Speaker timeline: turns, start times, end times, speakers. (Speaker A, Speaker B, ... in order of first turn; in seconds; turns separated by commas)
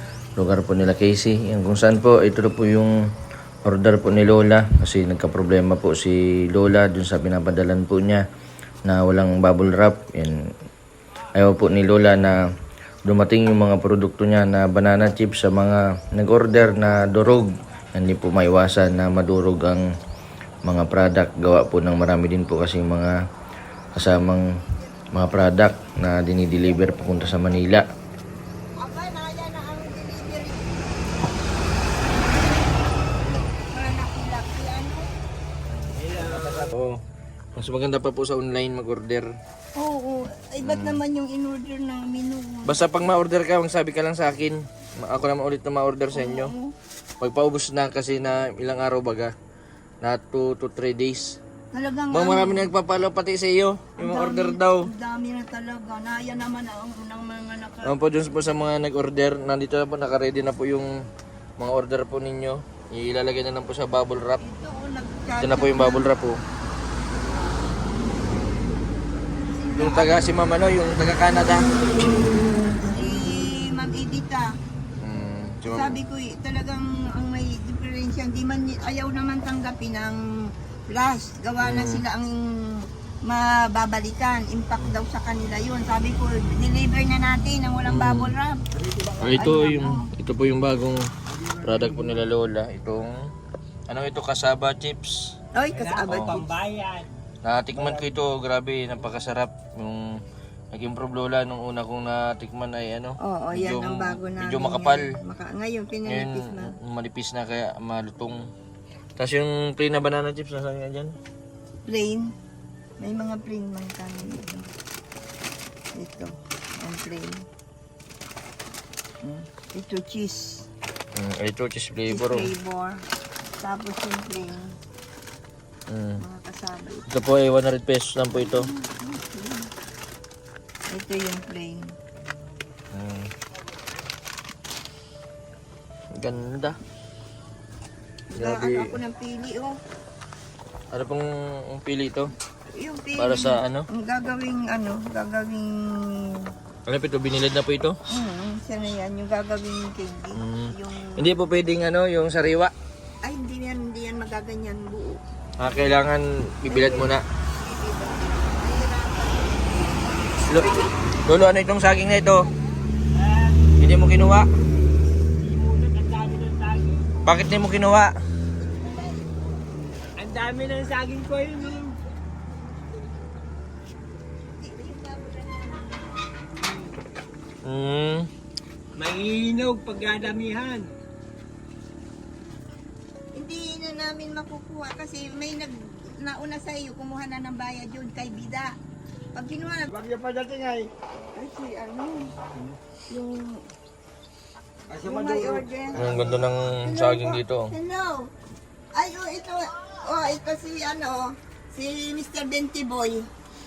Speaker A: 0.3-3.0, Speaker A: 3.6-8.2, Speaker A: 8.8-10.5, Speaker A: 11.3-12.4, Speaker A: 13.0-19.9, Speaker A: 20.6-23.2, Speaker A: 23.9-24.5, Speaker A: 25.1-27.8, Speaker B: 28.8-31.2, Speaker B: 33.5-35.1, Speaker C: 35.8-36.7, Speaker A: 36.2-37.0, Speaker A: 37.5-39.3, Speaker B: 39.8-43.1, Speaker A: 40.6-41.0, Speaker A: 42.6-46.5, Speaker B: 46.1-46.7, Speaker A: 47.2-49.3, Speaker A: 50.0-51.4, Speaker B: 51.7-52.7, Speaker A: 52.1-54.9, Speaker B: 54.0-58.0, Speaker A: 57.8-60.9, Speaker A: 61.6-64.4, Speaker B: 64.4-66.1, Speaker A: 65.4-66.4, Speaker B: 69.4-70.2, Speaker A: 69.8-71.7, Speaker B: 72.7-74.5, Speaker A: 75.0-76.0, Speaker B: 75.7-80.2, Speaker B: 80.9-88.6, Speaker A: 81.6-82.0, Speaker A: 87.8-88.3, Speaker C: 88.9-89.3, Speaker A: 89.2-93.3, Speaker B: 89.3-90.1, Speaker A: 93.9-95.3, Speaker B: 95.5-96.5, Speaker C: 95.7-97.2, Speaker A: 96.0-96.5, Speaker A: 97.4-100.2, Speaker A: 100.7-105.1, Speaker B: 103.2-106.7, Speaker A: 106.0-108.5, Speaker A: 109.2-111.1, Speaker B: 111.8-112.3, Speaker B: 113.0-114.7, Speaker B: 116.0-117.5, Speaker B: 119.7-120.7, Speaker A: 121.1-122.5, Speaker B: 122.1-123.0, Speaker B: 123.6-124.7, Speaker A: 125.9-126.2, Speaker B: 126.2-127.1, Speaker A: 127.1-128.7, Speaker B: 128.3-129.7, Speaker B: 130.9-131.9, Speaker A: 132.9-133.3, Speaker A: 136.1-136.8, Speaker B: 138.3-139.8, Speaker A: 138.3-139.0, Speaker A: 140.9-142.3, Speaker B: 142.7-146.5, Speaker A: 143.2-143.8, Speaker A: 146.8-148.0, Speaker B: 148.1-151.4, Speaker A: 150.3-152.7, Speaker B: 153.2-155.2, Speaker A: 155.6-157.2, Speaker B: 156.7-160.9, Speaker A: 160.5-162.5, Speaker C: 163.1-163.8, Speaker A: 163.8-164.5, Speaker C: 165.3-167.1, Speaker A: 167.2-168.1, Speaker B: 168.8-169.4, Speaker C: 170.2-172.0, Speaker B: 174.6-176.1, Speaker C: 176.6-176.9, Speaker A: 177.6-178.3, Speaker C: 178.9-180.9, Speaker B: 183.3-188.8, Speaker B: 189.3-190.1, Speaker C: 190.1-190.8, Speaker B: 191.3-192.3, Speaker B: 193.1-193.6, Speaker B: 194.9-198.3, Speaker C: 195.0-195.6, Speaker A: 195.9-197.7, Speaker B: 198.9-203.3